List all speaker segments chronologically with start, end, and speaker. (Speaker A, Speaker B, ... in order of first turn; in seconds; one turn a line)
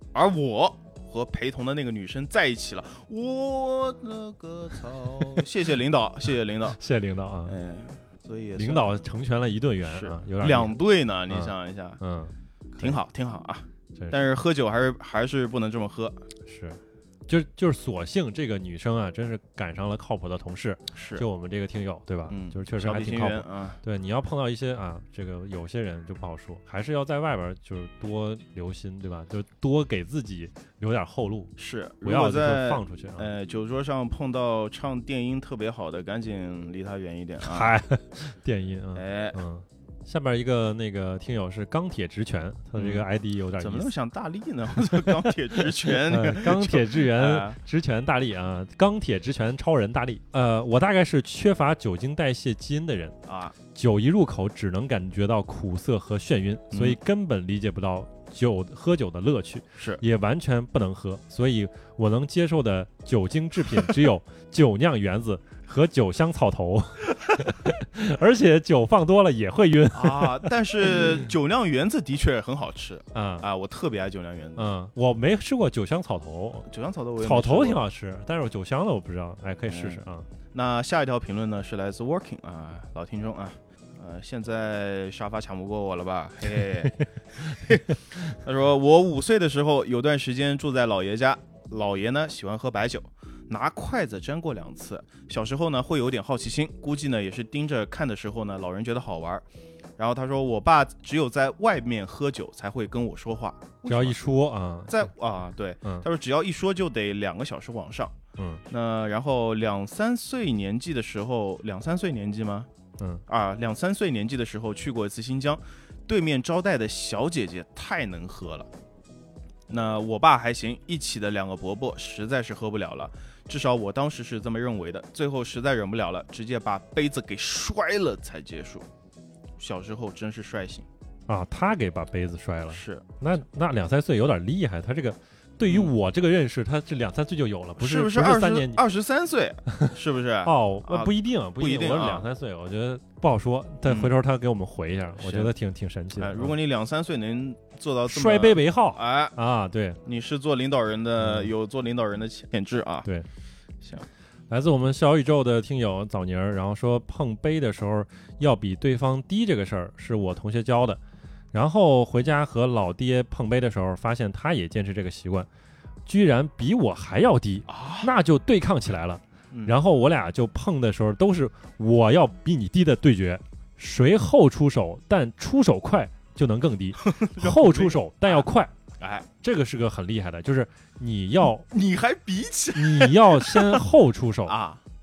Speaker A: 0.1-6.8
Speaker B: 6.7-7.6
Speaker A: 7.5-8.9
Speaker B: 8.6-10.8
Speaker A: 9.8-12.0
Speaker B: 11.3-13.0
Speaker A: 12.8-16.2
Speaker B: 16.5-31.5
Speaker A: 20.9-21.3
Speaker A: 22.3-23.8
Speaker A: 31.6-37.8
Speaker B: 32.0-33.3
Speaker B: 37.4-43.9
Speaker A: 39.0-39.4
Speaker A: 42.8-43.1
Speaker A: 43.6-47.6
Speaker B: 44.9-53.2
Speaker A: 53.3-53.5
Speaker B: 53.7-71.2
Speaker A: 56.7-57.0
Speaker A: 59.8-60.0
Speaker A: 69.9-74.7
Speaker B: 73.1-73.5
Speaker B: 74.6-76.7
Speaker A: 76.7-77.8
Speaker B: 77.2-80.3
Speaker A: 79.7-99.4
Speaker A: 100.0-104.2
Speaker B: 103.9-105.1
Speaker A: 104.9-108.2
Speaker A: 108.7-112.7
Speaker A: 113.3-118.7
Speaker A: 119.7-128.9
Speaker A: 129.6-130.9
Speaker B: 131.3-138.8
Speaker A: 132.7-133.2
Speaker A: 135.7-135.9
Speaker A: 137.8-142.3
Speaker B: 140.4-146.5
Speaker A: 143.8-144.1
Speaker A: 145.2-145.5
Speaker A: 146.2-149.4
Speaker B: 148.1-150.0
Speaker A: 150.0-153.1
Speaker B: 151.2-151.5
Speaker A: 153.8-154.1
Speaker B: 154.5-161.0
Speaker B: 161.5-165.5
Speaker B: 166.1-178.7
Speaker A: 167.7-168.1
Speaker A: 169.5-169.8
Speaker A: 177.1-178.5
Speaker A: 179.0-179.3
Speaker B: 179.4-181.7
Speaker A: 181.6-183.8
Speaker B: 182.8-184.6
Speaker A: 184.5-184.8